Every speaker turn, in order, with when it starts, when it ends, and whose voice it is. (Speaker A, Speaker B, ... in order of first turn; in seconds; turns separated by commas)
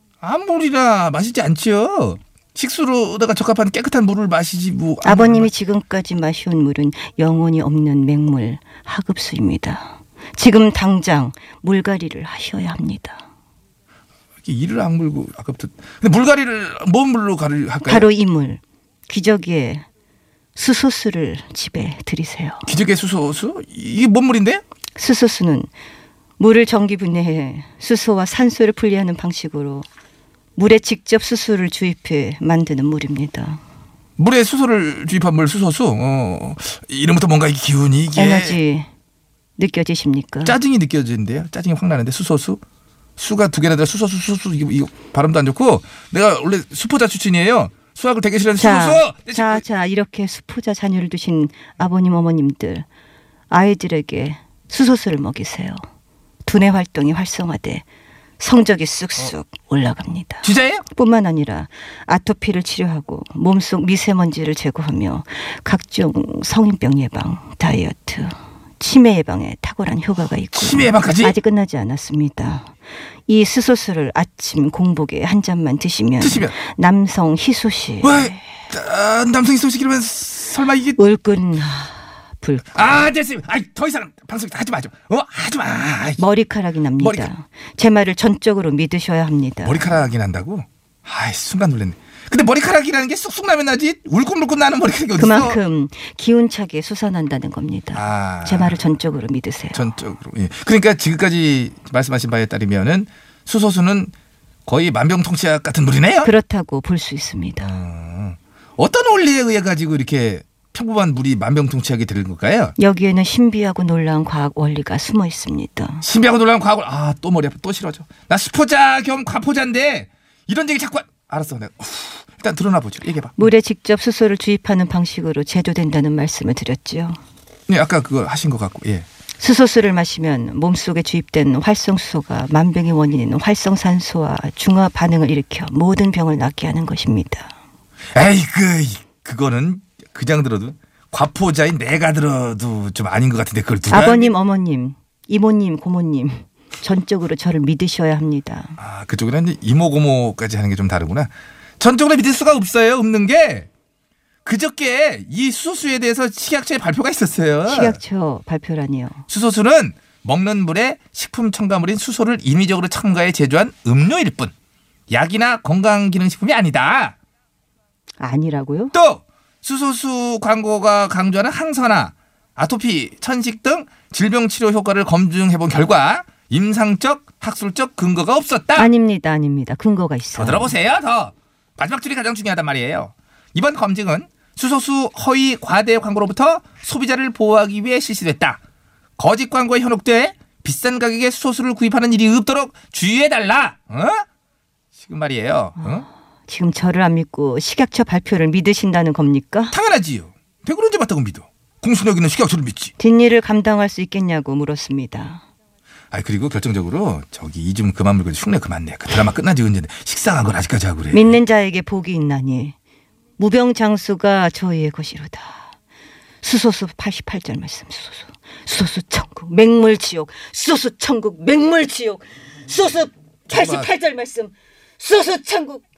Speaker A: 0.2-5.5, Speaker B: 5.0-13.2, Speaker A: 14.4-18.1, Speaker B: 17.8-19.8, Speaker B: 20.5-22.6, Speaker A: 22.6-24.6, Speaker B: 24.9-25.7, Speaker B: 26.4-29.9, Speaker B: 30.6-33.6, Speaker A: 34.2-38.6, Speaker B: 38.1-38.9, Speaker B: 39.6-40.6, Speaker A: 40.4-42.6, Speaker A: 43.2-49.6, Speaker B: 48.5-52.9, Speaker B: 53.5-55.8, Speaker B: 56.4-57.8, Speaker B: 58.4-72.7, Speaker A: 60.4-60.9, Speaker A: 70.5-71.3, Speaker B: 73.3-78.4, Speaker A: 76.2-76.5, Speaker A: 78.0-81.0, Speaker B: 81.0-83.0, Speaker A: 82.7-86.2, Speaker B: 86.2-90.0, Speaker A: 87.0-87.3, Speaker A: 89.6-95.6, Speaker B: 95.2-99.9, Speaker A: 97.9-98.8, Speaker A: 99.7-104.1, Speaker A: 104.7-106.3, Speaker B: 106.2-107.7, Speaker A: 107.6-112.7, Speaker B: 112.8-116.0, Speaker A: 116.0-123.5, Speaker B: 123.4-127.2, Speaker A: 127.7-129.1, Speaker B: 129.4-137.5, Speaker A: 138.1-144.3, Speaker B: 143.9-148.8, Speaker A: 148.8-153.7, Speaker A: 154.4-158.0, Speaker B: 157.6-159.2, Speaker A: 159.3-164.5, Speaker A: 165.1-167.1, Speaker B: 168.2-168.9, Speaker A: 168.9-178.9, Speaker B: 178.8-180.7, Speaker A: 180.3-188.6, Speaker A: 189.2-194.2, Speaker A: 195.0-196.1, Speaker B: 196.5-199.7, Speaker A: 199.7-202.9, Speaker B: 203.0-205.4, Speaker A: 206.1-211.4, Speaker B: 211.1-212.7, Speaker B: 213.4-215.6, Speaker B: 216.4-225.8, Speaker A: 223.5-223.9